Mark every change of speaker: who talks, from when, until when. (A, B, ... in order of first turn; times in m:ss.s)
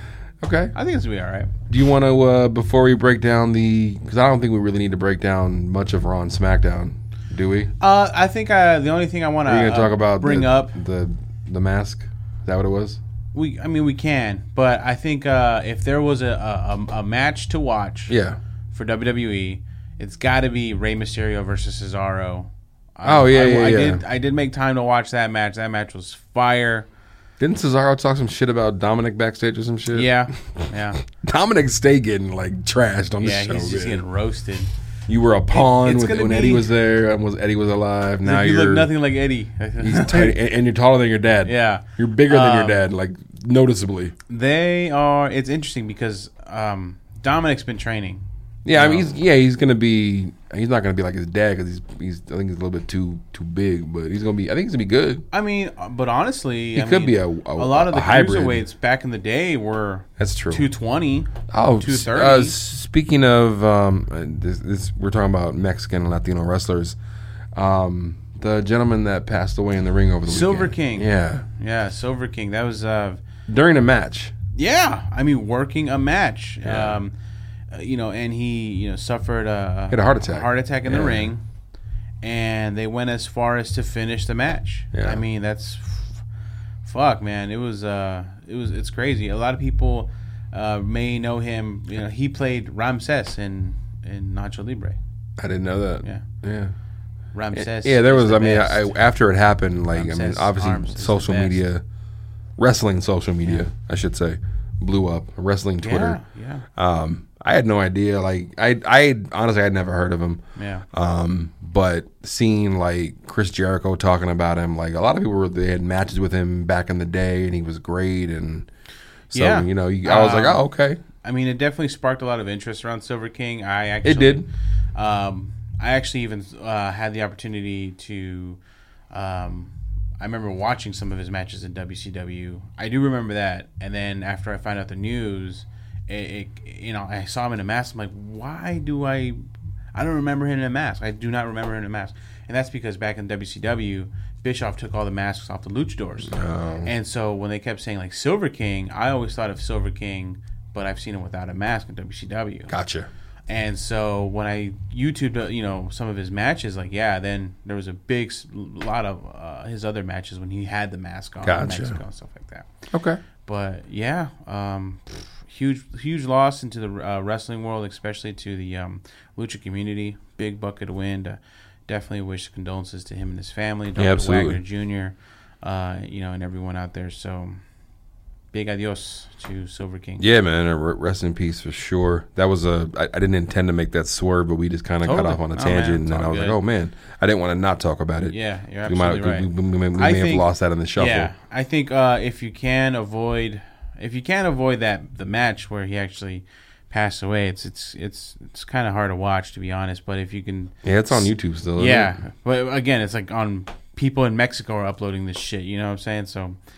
0:00.4-0:00.7 A
0:00.7-0:01.5 B
0:01.7-0:07.7 A
0:07.8-0:10.8 B
0:09.4-0:13.0 A
0:13.3-0:18.2 B
0:18.1-0:18.4 A
0:18.7-0:26.9 B
0:23.0-0:24.0 A
0:27.4-0:34.0 A
0:29.9-0:31.0 B
0:33.2-0:34.7 B
0:35.1-0:38.9 A
0:35.5-0:36.7 B
0:38.2-0:40.4 B
0:39.8-0:44.1 A
0:41.4-0:42.8 B
0:44.3-0:49.1 B
0:48.6-0:55.2 A
0:55.3-1:02.6 B
0:56.8-0:58.6 A
1:00.2-1:00.7 A
1:01.5-1:07.0 A
1:07.6-1:11.5 A
1:10.3-1:13.2 B
1:13.5-1:14.3 A
1:14.6-1:17.1 B
1:16.6-1:17.0 A
1:17.7-1:21.4 B
1:19.9-1:21.3 A
1:22.2-1:26.2 B
1:24.9-1:25.2 A
1:26.8-1:35.0 B
1:35.4-1:36.7 A
1:37.3-1:39.0 B
1:37.5-1:41.8 A
1:39.9-1:41.6 B
1:42.6-1:46.2 A
1:45.8-1:46.6 B
1:46.8-1:58.7 A
1:50.6-1:50.8 B
1:59.3-2:01.0 A
1:59.3-2:00.6 B
2:01.2-2:08.6 B
2:04.0-2:04.5 A
2:09.1-2:19.4 B
2:19.9-2:32.7 B
2:26.3-2:26.9 A
2:32.7-2:33.1 A
2:33.5-2:42.7 B
2:41.4-2:42.0 A
2:42.9-2:43.2 A
2:43.4-2:57.6 B
2:54.0-2:54.6 A
2:58.5-3:00.2 B
3:00.2-3:11.3 A
3:05.0-3:06.6 B
3:08.3-3:26.6 B
3:20.8-3:22.2 A